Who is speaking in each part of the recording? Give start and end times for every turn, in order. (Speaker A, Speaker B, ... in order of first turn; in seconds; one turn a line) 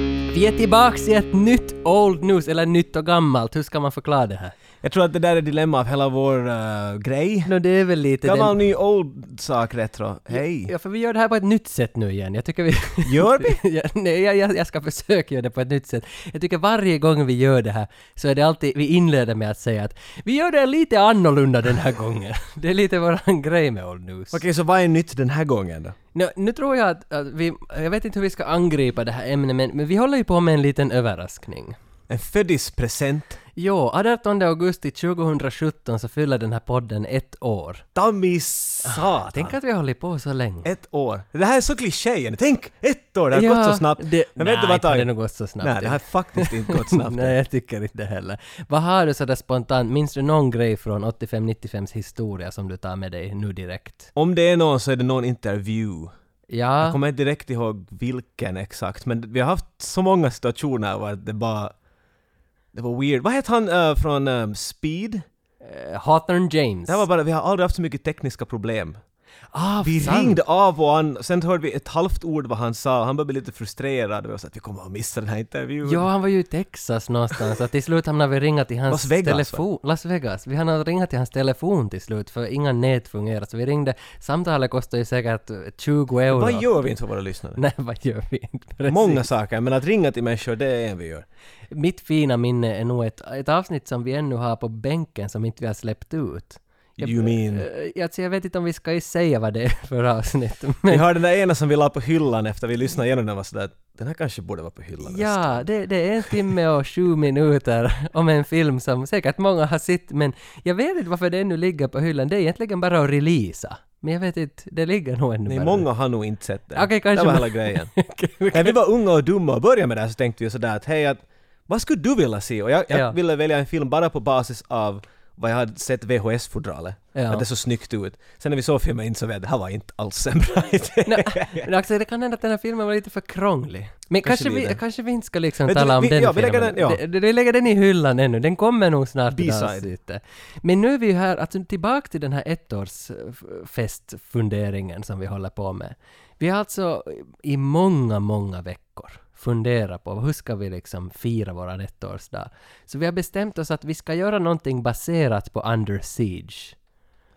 Speaker A: 0.3-4.5
Speaker B: 4.8-7.5
Speaker A: 7.4-8.6
Speaker B: 8.2-10.7
Speaker A: 10.3-24.4
Speaker B: 13.0-13.6
Speaker B: 24.3-25.9
Speaker A: 26.1-31.7
Speaker B: 32.1-33.4
Speaker A: 33.5-37.9
Speaker B: 37.9-39.6
Speaker A: 38.8-40.7
Speaker B: 40.6-45.1
Speaker A: 43.3-54.1
Speaker B: 45.6-47.4
Speaker B: 54.1-56.1
Speaker A: 56.5-57.0
Speaker B: 56.8-61.7
Speaker B: 62.7-65.2
Speaker A: 65.6-67.0
Speaker B: 66.9-69.0
Speaker A: 69.5-70.4
Speaker B: 69.8-76.1
Speaker A: 75.8-86.7
Speaker B: 78.9-79.6
Speaker B: 86.3-87.6
Speaker A: 87.5-89.2
Speaker B: 88.8-91.2
Speaker A: 91.7-101.1
Speaker B: 97.0-97.7
Speaker B: 100.9-105.7
Speaker A: 105.0-115.9
Speaker B: 115.5-117.9
Speaker A: 116.7-118.8
Speaker B: 118.5-131.7
Speaker A: 122.9-123.2
Speaker A: 127.1-127.5
Speaker A: 131.1-156.8
Speaker B: 134.2-134.8
Speaker B: 135.7-137.0
Speaker B: 139.3-139.9